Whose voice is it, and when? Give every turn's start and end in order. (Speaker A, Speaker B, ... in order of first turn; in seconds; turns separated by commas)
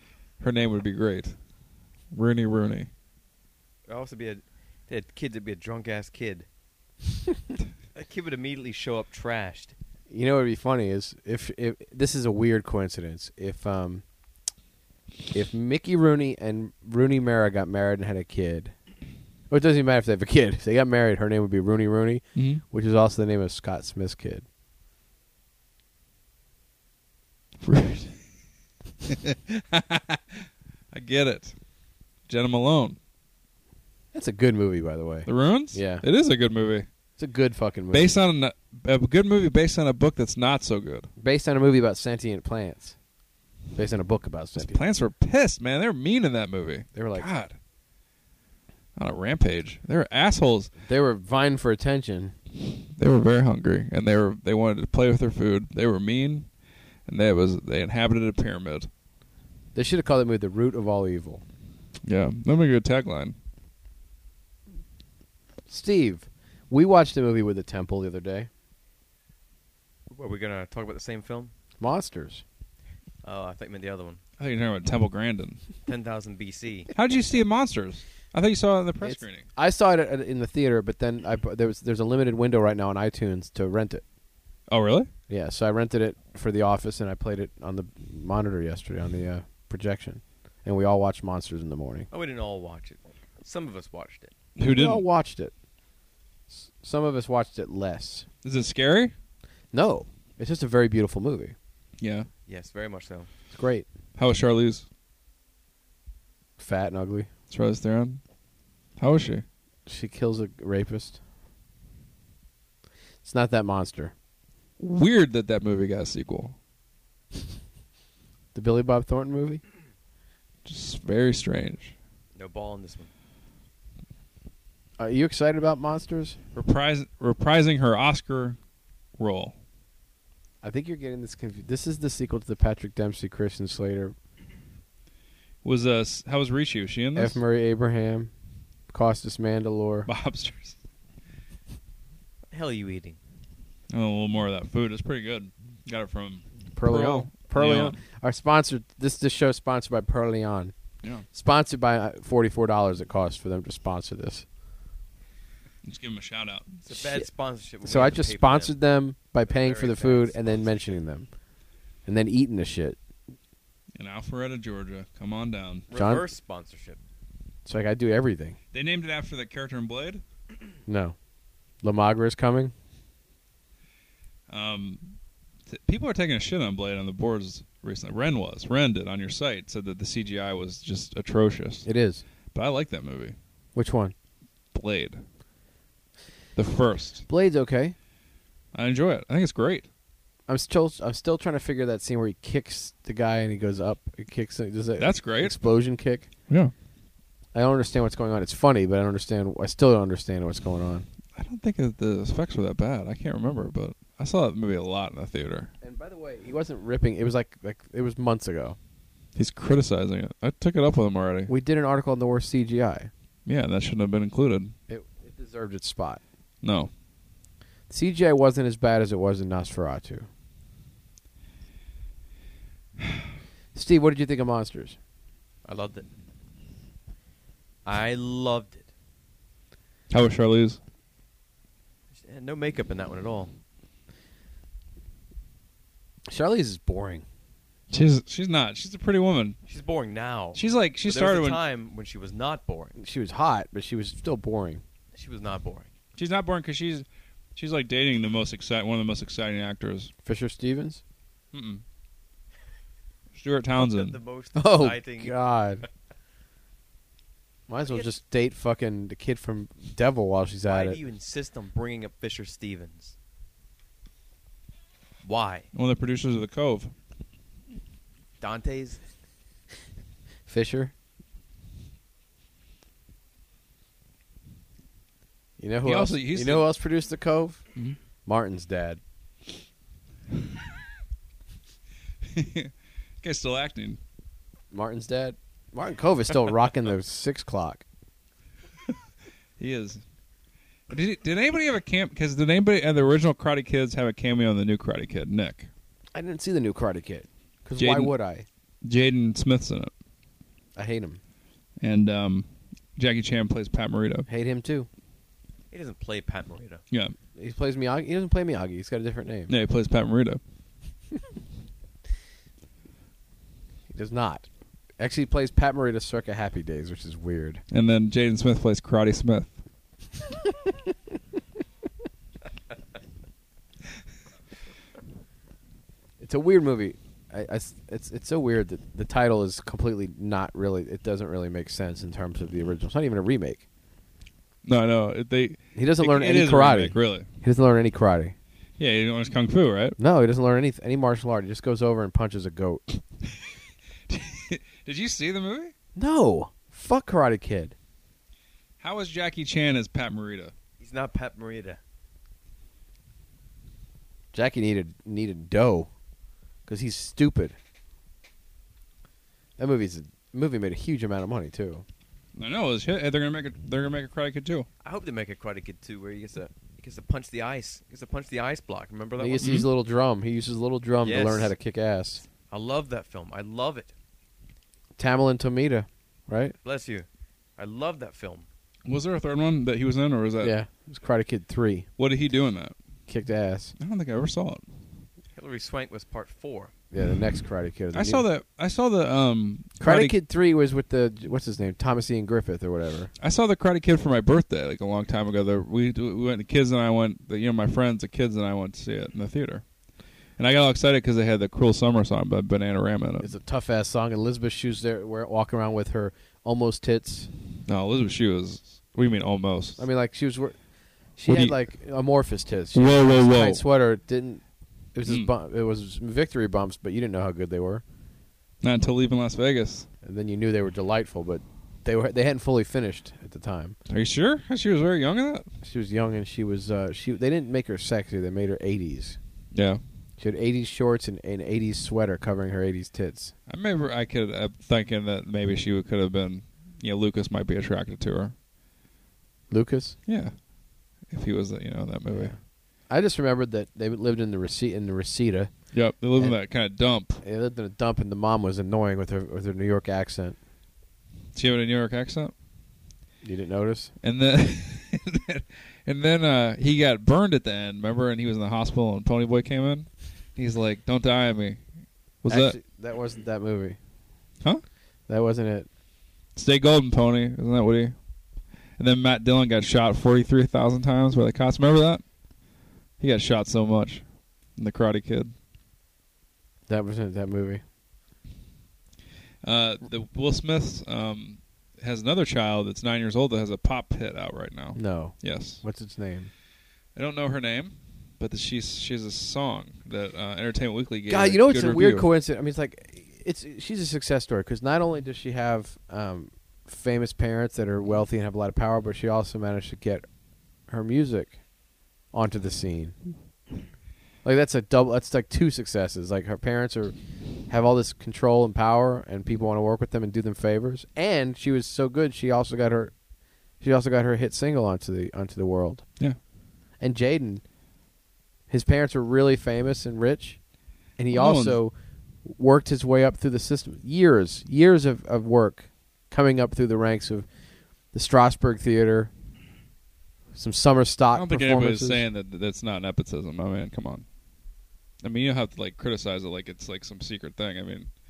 Speaker A: 0.4-1.4, Speaker A: 2.1-2.9, Speaker B: 3.9-6.5, Speaker B: 7.9-9.7, Speaker C: 10.1-14.0, Speaker C: 15.3-18.7, Speaker C: 19.5-24.4, Speaker A: 22.4-22.6, Speaker A: 27.6-28.2, Speaker A: 29.1-31.6, Speaker A: 32.3-33.0, Speaker C: 34.1-36.0, Speaker A: 35.3-36.9, Speaker C: 37.2-38.1, Speaker A: 37.9-41.1, Speaker C: 41.2-43.0, Speaker C: 43.8-44.8, Speaker A: 44.6-47.5, Speaker C: 46.9-47.3, Speaker A: 49.0-50.7, Speaker C: 50.9-52.4, Speaker A: 53.0-56.5, Speaker A: 57.1-58.9, Speaker C: 59.8-61.4, Speaker A: 62.0-63.4, Speaker C: 65.7-68.5, Speaker B: 70.1-71.5, Speaker C: 71.8-72.4, Speaker B: 73.2-74.2, Speaker A: 74.4-75.6, Speaker B: 75.9-76.9, Speaker A: 76.9-79.5, Speaker C: 79.0-84.0, Speaker A: 84.7-85.1, Speaker C: 85.3-92.1, Speaker B: 92.1-94.3, Speaker A: 94.6-95.0, Speaker C: 94.6-95.5, Speaker C: 96.5-98.3, Speaker A: 98.4-99.1, Speaker C: 99.7-101.5, Speaker A: 102.0-102.3, Speaker B: 102.5-103.3, Speaker C: 103.5-103.9, Speaker A: 104.2-104.9, Speaker C: 106.6-107.3, Speaker A: 107.5-108.2, Speaker A: 109.0-109.5, Speaker C: 109.9-111.2, Speaker C: 113.2-114.1, Speaker A: 114.8-116.6, Speaker C: 118.5-119.6, Speaker A: 120.7-121.9, Speaker B: 122.3-123.1, Speaker C: 125.0-126.4, Speaker A: 126.5-128.6, Speaker A: 129.2-129.6, Speaker C: 130.6-134.2, Speaker A: 135.6-137.4, Speaker C: 137.2-138.3, Speaker C: 138.9-140.1, Speaker A: 140.1-140.8, Speaker B: 142.5-143.2, Speaker A: 143.9-148.0, Speaker C: 146.8-150.7, Speaker C: 151.3-154.5, Speaker A: 155.8-156.7, Speaker B: 156.8-158.7, Speaker C: 156.9-157.3, Speaker C: 157.8-161.3, Speaker B: 159.5-160.8, Speaker C: 162.1-163.0, Speaker A: 164.0-165.9, Speaker B: 165.9-167.0, Speaker C: 165.9-166.3, Speaker C: 167.7-168.6, Speaker A: 168.7-170.2, Speaker C: 170.9-171.2, Speaker C: 171.8-172.7, Speaker A: 174.5-175.1, Speaker A: 175.7-181.9, Speaker C: 181.8-182.2, Speaker A: 182.5-183.4, Speaker C: 183.8-184.1, Speaker A: 184.7-185.2, Speaker A: 186.6-187.2, Speaker C: 187.3-187.9, Speaker A: 188.7-189.9, Speaker C: 190.5-196.3, Speaker A: 195.0-195.6, Speaker C: 197.6-201.1, Speaker A: 201.3-205.7, Speaker C: 205.8-208.8, Speaker A: 209.3-211.5, Speaker C: 211.5-213.1, Speaker A: 213.5-214.7, Speaker C: 214.9-216.2, Speaker A: 216.6-216.9, Speaker C: 217.9-220.3, Speaker C: 223.7-225.0, Speaker B: 225.7-226.1, Speaker B: 227.8-228.9, Speaker A: 230.1-230.8, Speaker B: 232.1-233.5, Speaker C: 236.3-237.2, Speaker A: 237.9-239.6, Speaker B: 239.7-243.0, Speaker A: 240.6-241.6, Speaker C: 243.0-244.8, Speaker B: 245.2-245.9, Speaker A: 246.2-250.1, Speaker C: 250.2-251.0, Speaker A: 251.5-251.8, Speaker A: 253.3-254.2, Speaker B: 253.8-255.4, Speaker C: 254.6-255.8, Speaker C: 257.7-261.0, Speaker B: 257.9-258.1, Speaker B: 260.7-263.1, Speaker B: 265.2-265.7, Speaker A: 265.7-266.9, Speaker B: 268.4-269.0, Speaker C: 270.5-270.9, Speaker C: 275.6-277.6, Speaker A: 275.9-276.7, Speaker C: 278.3-279.0, Speaker A: 282.2-284.0, Speaker C: 284.7-287.9, Speaker A: 289.6-290.0, Speaker A: 290.9-295.7, Speaker C: 296.1-298.5, Speaker A: 297.8-298.1, Speaker A: 298.8-299.9, Speaker C: 300.8-301.2, Speaker A: 301.8-304.3, Speaker C: 304.3-304.9, Speaker B: 305.7-306.8, Speaker C: 307.4-309.5, Speaker A: 309.5-310.4, Speaker C: 313.9-314.5, Speaker C: 315.0-317.6, Speaker A: 317.7-319.5, Speaker C: 326.2-333.6, Speaker A: 334.6-337.3, Speaker C: 335.8-338.4, Speaker A: 338.8-340.0, Speaker C: 340.0-343.0, Speaker A: 344.1-345.7, Speaker C: 346.0-347.8, Speaker A: 348.8-350.5, Speaker B: 350.8-351.8, Speaker C: 354.3-355.9, Speaker C: 356.7-357.6, Speaker C: 359.6-361.9, Speaker A: 362.4-364.7, Speaker B: 364.8-369.6, Speaker C: 369.2-372.2, Speaker A: 369.4-369.7, Speaker B: 371.0-371.5, Speaker B: 372.5-373.9, Speaker C: 375.0-376.6, Speaker B: 376.6-378.5, Speaker A: 378.9-380.5, Speaker C: 380.4-381.9, Speaker A: 382.0-382.8, Speaker C: 383.1-383.7, Speaker A: 383.8-384.6, Speaker B: 385.4-386.7, Speaker C: 386.9-388.2, Speaker A: 387.9-390.2, Speaker C: 389.8-393.1, Speaker A: 393.2-399.6, Speaker A: 400.4-403.3, Speaker C: 403.2-407.3, Speaker A: 407.7-409.8, Speaker C: 409.8-410.6, Speaker C: 411.2-414.4, Speaker A: 411.3-411.6, Speaker A: 412.7-413.6, Speaker C: 414.9-417.8, Speaker A: 418.6-419.9, Speaker C: 420.0-423.8, Speaker A: 423.9-425.5, Speaker C: 425.6-429.2, Speaker A: 429.5-429.8, Speaker C: 430.2-433.3, Speaker A: 433.5-438.3, Speaker C: 439.5-440.0, Speaker A: 440.1-440.4, Speaker A: 441.1-442.3, Speaker C: 442.1-442.4, Speaker C: 442.9-445.5, Speaker A: 445.7-447.2, Speaker C: 447.2-450.4, Speaker A: 451.4-452.3, Speaker C: 453.2-453.9, Speaker A: 454.0-461.6, Speaker A: 462.2-462.6, Speaker C: 462.3-463.8, Speaker C: 465.1-465.7, Speaker A: 466.4-467.9, Speaker A: 468.8-472.0, Speaker A: 473.0-474.0, Speaker A: 474.6-475.3, Speaker C: 476.7-477.6, Speaker A: 479.4-485.6, Speaker C: 484.8-486.3, Speaker A: 486.9-492.1, Speaker C: 491.1-500.1, Speaker C: 500.7-501.4, Speaker C: 502.1-503.0, Speaker C: 504.2-506.9, Speaker C: 507.5-512.9, Speaker C: 513.6-515.9, Speaker C: 516.8-517.4, Speaker C: 518.5-520.4, Speaker C: 521.0-527.3, Speaker A: 521.1-521.6, Speaker C: 527.9-529.1, Speaker C: 530.4-532.0, Speaker A: 531.1-534.0, Speaker A: 535.0-537.9